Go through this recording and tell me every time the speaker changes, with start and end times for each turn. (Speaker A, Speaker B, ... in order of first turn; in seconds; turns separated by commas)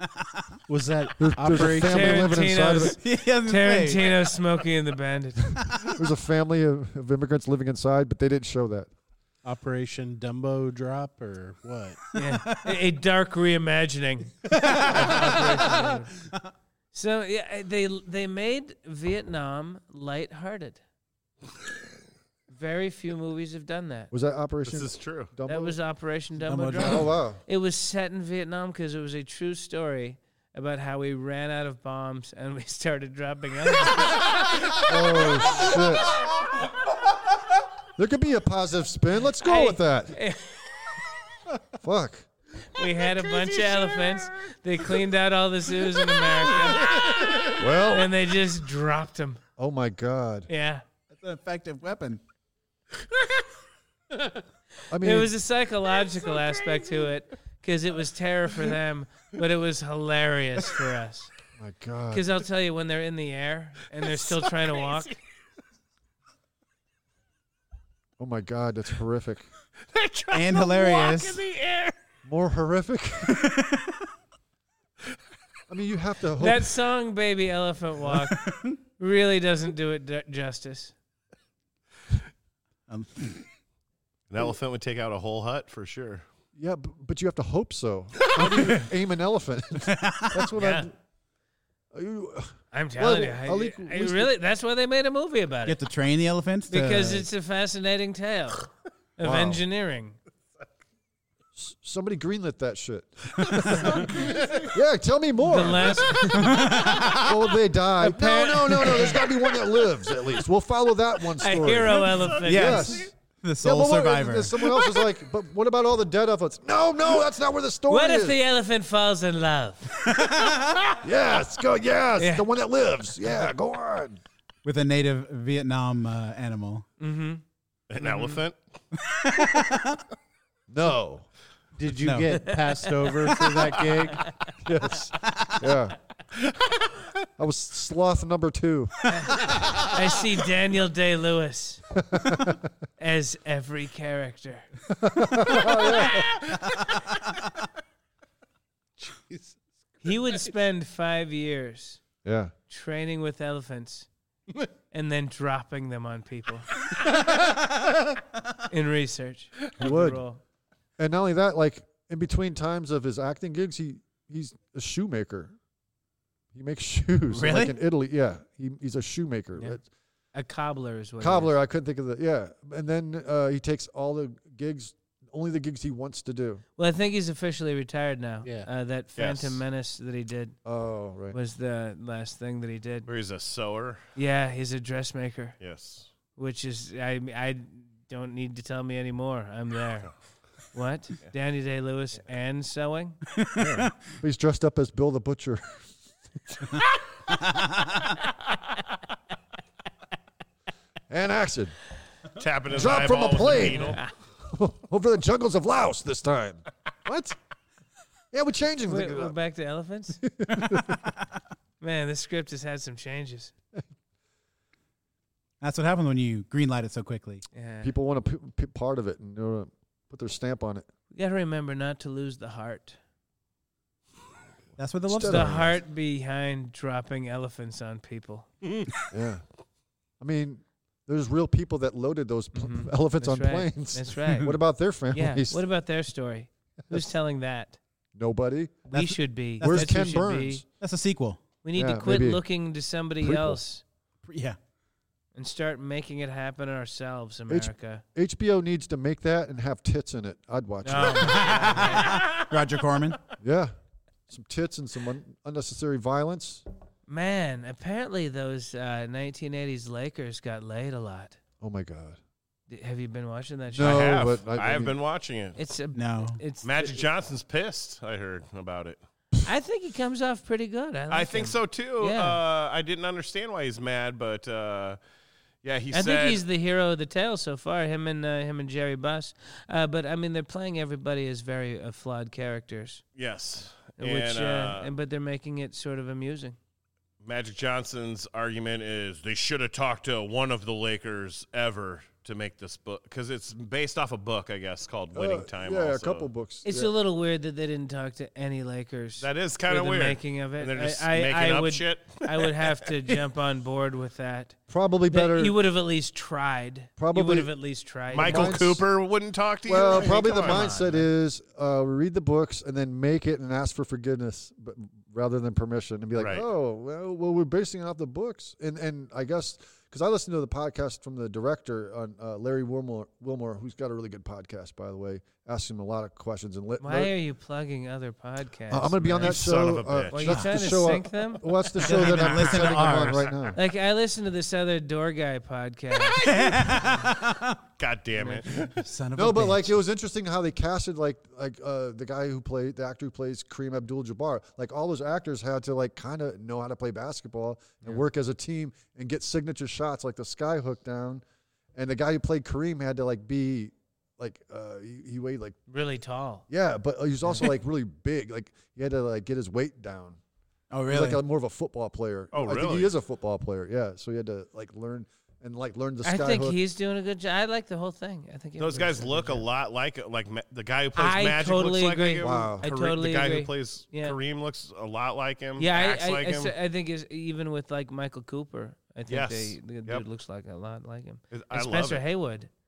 Speaker A: 0.7-2.4, Speaker B: 1.2-3.0, Speaker C: 1.7-5.5, Speaker D: 2.9-4.1, Speaker B: 5.7-8.9, Speaker A: 9.4-12.0, Speaker C: 12.1-16.3, Speaker D: 12.2-12.8, Speaker D: 14.6-15.4, Speaker C: 16.9-20.8, Speaker C: 22.5-24.1, Speaker B: 24.1-25.8, Speaker E: 24.6-25.3, Speaker C: 25.5-34.6, Speaker D: 26.4-27.1, Speaker B: 26.8-27.4, Speaker B: 34.8-36.2, Speaker B: 38.0-40.2, Speaker C: 39.4-40.7, Speaker B: 41.5-42.3, Speaker C: 42.7-49.4, Speaker B: 47.5-48.1, Speaker B: 49.6-50.5, Speaker C: 50.5-50.8, Speaker D: 51.1-52.2, Speaker B: 54.9-55.3, Speaker C: 55.0-61.3, Speaker B: 61.6-62.2, Speaker C: 62.1-65.1, Speaker E: 64.3-65.1, Speaker B: 68.2-69.5, Speaker E: 69.9-71.9, Speaker D: 70.3-71.4, Speaker B: 72.2-73.5, Speaker D: 73.4-74.0, Speaker B: 75.7-76.7, Speaker C: 76.4-80.9, Speaker D: 82.9-83.4, Speaker E: 84.3-86.2, Speaker B: 86.5-90.9, Speaker D: 89.9-90.4, Speaker C: 90.5-90.9, Speaker B: 91.9-94.3, Speaker C: 92.7-95.8, Speaker D: 95.7-97.2, Speaker C: 96.7-100.2, Speaker B: 99.2-99.6, Speaker B: 101.5-113.1, Speaker D: 103.5-103.9, Speaker C: 105.4-106.6, Speaker D: 106.3-107.5, Speaker C: 108.0-109.3, Speaker C: 111.4-113.0, Speaker D: 112.4-114.7, Speaker B: 113.6-118.4, Speaker C: 117.9-120.3, Speaker D: 120.2-120.9, Speaker B: 121.0-124.2, Speaker C: 122.2-122.5, Speaker D: 124.6-126.8, Speaker C: 127.0-127.4, Speaker E: 127.9-128.6, Speaker C: 128.0-128.4, Speaker D: 129.1-130.0, Speaker B: 130.7-131.3, Speaker A: 131.8-134.3, Speaker D: 132.0-132.5, Speaker C: 132.4-133.3, Speaker B: 134.6-136.0, Speaker B: 137.4-138.9, Speaker C: 139.1-141.8, Speaker B: 141.9-142.7, Speaker C: 143.0-144.7, Speaker B: 144.9-146.3, Speaker A: 149.0-149.5, Speaker C: 150.0-152.0, Speaker B: 152.2-152.5, Speaker C: 152.7-154.1, Speaker C: 154.9-156.7, Speaker C: 158.7-160.4, Speaker B: 159.8-160.2, Speaker B: 161.0-165.5, Speaker B: 166.5-169.8, Speaker D: 167.3-167.7, Speaker C: 170.3-171.5, Speaker B: 171.2-176.6, Speaker C: 176.8-180.6, Speaker E: 179.2-179.6, Speaker B: 180.6-181.4, Speaker C: 181.3-183.1, Speaker E: 183.1-184.0, Speaker C: 184.1-185.6, Speaker E: 185.6-186.1, Speaker C: 186.3-190.1, Speaker C: 190.7-193.2, Speaker D: 193.4-193.8, Speaker B: 193.6-195.9, Speaker D: 197.5-197.8, Speaker B: 201.1-201.7, Speaker E: 202.4-204.0, Speaker B: 202.7-207.3, Speaker C: 203.5-204.1, Speaker B: 208.3-209.3, Speaker C: 208.8-210.2, Speaker B: 210.2-211.0, Speaker C: 211.8-213.5, Speaker D: 215.6-217.4, Speaker C: 217.5-217.9, Speaker B: 217.8-220.9, Speaker C: 221.1-223.0, Speaker D: 224.8-225.8, Speaker B: 225.1-225.7, Speaker C: 225.2-228.5, Speaker B: 229.1-229.4, Speaker B: 230.2-235.6, Speaker C: 232.5-234.6, Speaker C: 235.1-237.8, Speaker B: 238.1-238.9, Speaker D: 238.9-240.1, Speaker C: 238.9-240.6, Speaker B: 239.6-240.6, Speaker D: 240.7-241.4, Speaker C: 241.6-243.8, Speaker B: 241.7-242.4, Speaker B: 243.2-243.6, Speaker D: 244.2-244.6, Speaker C: 245.3-248.0, Speaker B: 247.5-252.0, Speaker C: 250.8-252.4, Speaker D: 251.3-253.2, Speaker B: 253.4-253.7, Speaker B: 254.3-256.6, Speaker C: 257.1-261.4, Speaker B: 261.6-262.2, Speaker C: 262.7-264.1, Speaker B: 263.7-264.9, Speaker E: 263.7-265.6, Speaker C: 265.6-267.0, Speaker D: 265.9-266.4, Speaker E: 266.6-269.0, Speaker C: 269.4-272.4, Speaker E: 271.1-275.0, Speaker E: 275.6-276.4, Speaker C: 275.9-283.0, Speaker E: 283.1-284.9, Speaker C: 284.0-286.6, Speaker E: 287.2-296.3, Speaker B: 295.1-296.9, Speaker C: 296.6-304.6, Speaker E: 299.2-302.5, Speaker B: 304.7-305.6, Speaker C: 305.1-308.6, Speaker B: 307.0-307.5, Speaker B: 308.1-308.9, Speaker E: 308.1-310.7, Speaker B: 309.7-327.1, Speaker C: 309.8-311.1, Speaker E: 316.2-316.4, Speaker C: 326.8-329.5, Speaker B: 328.7-333.6, Speaker E: 329.2-330.5, Speaker C: 330.1-332.6, Speaker D: 331.8-333.4, Speaker C: 333.5-336.8, Speaker D: 336.1-337.6, Speaker E: 336.2-337.1, Speaker E: 337.8-338.7, Speaker C: 338.1-338.6, Speaker D: 338.8-339.8, Speaker B: 339.1-351.2, Speaker B: 351.7-355.6, Speaker C: 355.7-356.4, Speaker B: 356.5-360.2, Speaker C: 357.2-357.5, Speaker D: 360.7-361.2, Speaker B: 360.9-366.6, Speaker E: 362.3-362.9, Speaker C: 366.0-369.4, Speaker E: 368.6-376.5, Speaker C: 370.9-374.2, Speaker B: 372.2-372.6, Speaker C: 375.6-382.5, Speaker E: 379.1-380.0, Speaker E: 381.3-382.0